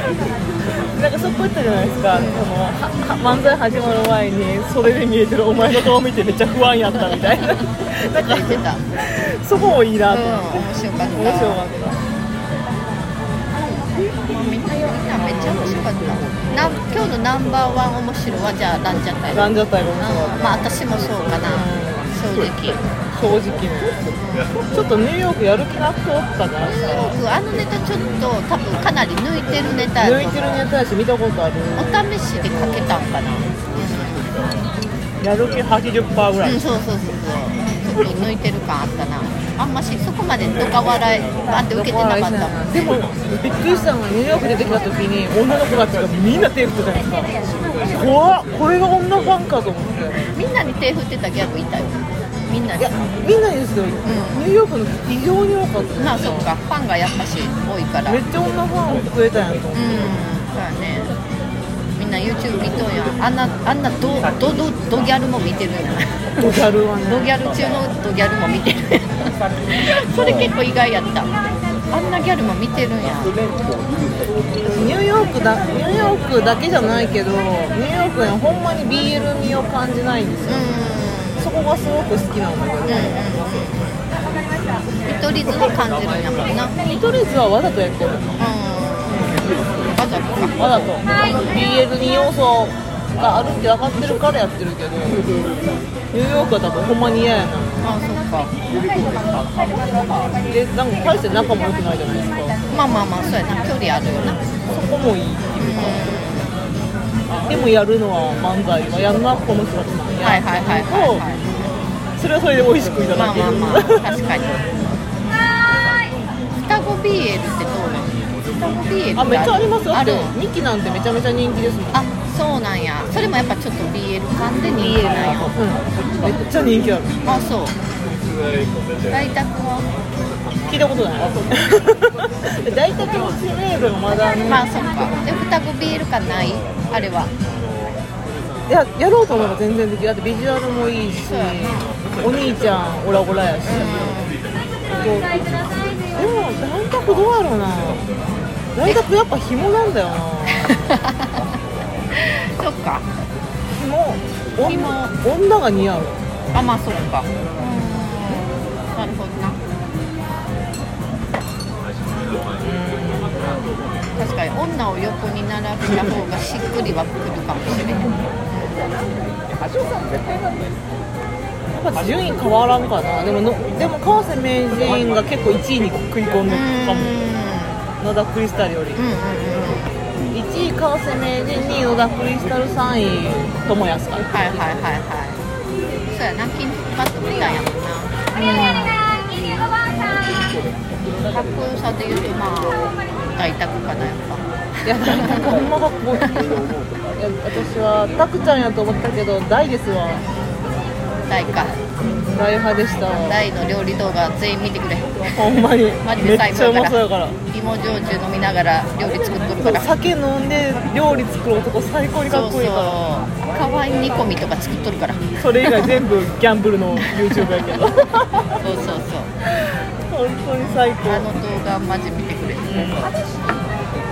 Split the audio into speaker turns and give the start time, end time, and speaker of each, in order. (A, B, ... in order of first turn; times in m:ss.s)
0:00.9-0:12.0 A
0:02.1-0:02.5 B
0:08.1-0:08.9 B
0:10.1-0:11.6 B
0:14.0-0:22.8 B
0:19.3-0:20.7 A
0:21.5-0:22.1 A
0:23.1-0:24.0 A
0:24.2-0:24.6 B
0:24.7-0:26.9 A
0:26.6-0:30.6 B
0:30.0-0:32.1 A
0:31.7-0:34.3 B
0:35.2-0:36.7 A
0:36.4-0:42.9 B
0:41.7-0:47.3 A
0:47.8-0:50.3 A
0:50.2-0:53.0 B
0:52.8-0:56.5 A
0:54.0-0:54.5 B
0:56.0-0:58.2 B
0:58.0-1:00.2 A
0:59.7-1:01.1 B
1:02.0-1:11.3 B
1:06.4-1:07.6 A
1:11.9-1:13.4 B
1:14.6-1:20.7 A
1:20.5-1:21.5 B
1:21.4-1:23.4 A
1:22.8-1:24.0 B
1:25.0-1:26.7 B
1:26.8-1:28.4 A
1:28.4-1:30.7 B
1:29.1-1:29.4 A
1:30.6-1:35.3 A
1:36.1-1:38.0 A
1:37.8-1:38.5 B
1:40.4-1:42.6 A
1:42.7-1:44.5 B
1:44.7-1:46.2 A
1:45.6-1:46.6 B
1:47.4-1:51.2 A
1:50.2-1:51.8 B
1:52.2-1:54.2 A
1:53.1-1:54.6 B
1:56.6-2:00.3 B
1:59.1-2:02.1 A
2:01.9-2:05.5 B
2:05.5-2:07.2 A
2:07.2-2:07.8 B
2:09.1-2:09.9 B
2:10.7-2:14.7 A
2:14.4-2:17.3 B
2:18.7-2:24.1 A
2:21.3-2:21.9 B
2:23.6-2:24.4 B
2:25.0-2:25.4 A
2:26.1-2:28.1 A
2:28.7-2:30.8 A
2:30.5-2:31.4 B
2:32.1-2:33.1 B
2:33.7-2:36.2 A
2:34.6-2:35.1 B
2:36.5-2:39.6 B
2:42.6-2:43.6 A
2:44.1-2:48.9 B
2:51.8-2:57.2 A
2:56.5-2:57.8 B
2:58.0-2:59.0 A
2:59.0-2:59.9 B
3:00.3-3:04.6 A
3:04.2-3:05.4 B
3:06.1-3:08.2 B
3:08.3-3:09.2 A
3:11.2-3:14.4 B
3:14.8-3:16.4 A
3:15.0-3:15.5 B
3:17.2-3:20.2 A
3:20.2-3:20.7 B
3:21.3-3:21.8 B
3:22.3-3:23.5 A
3:23.0-3:29.9 B
3:25.3-3:27.4 A
3:29.6-3:33.0 A
3:32.2-3:35.9 B
3:35.4-3:38.6 A
3:38.6-3:39.3 B
3:39.6-3:41.3 A
3:40.6-3:43.1 B
3:42.7-3:42.9 A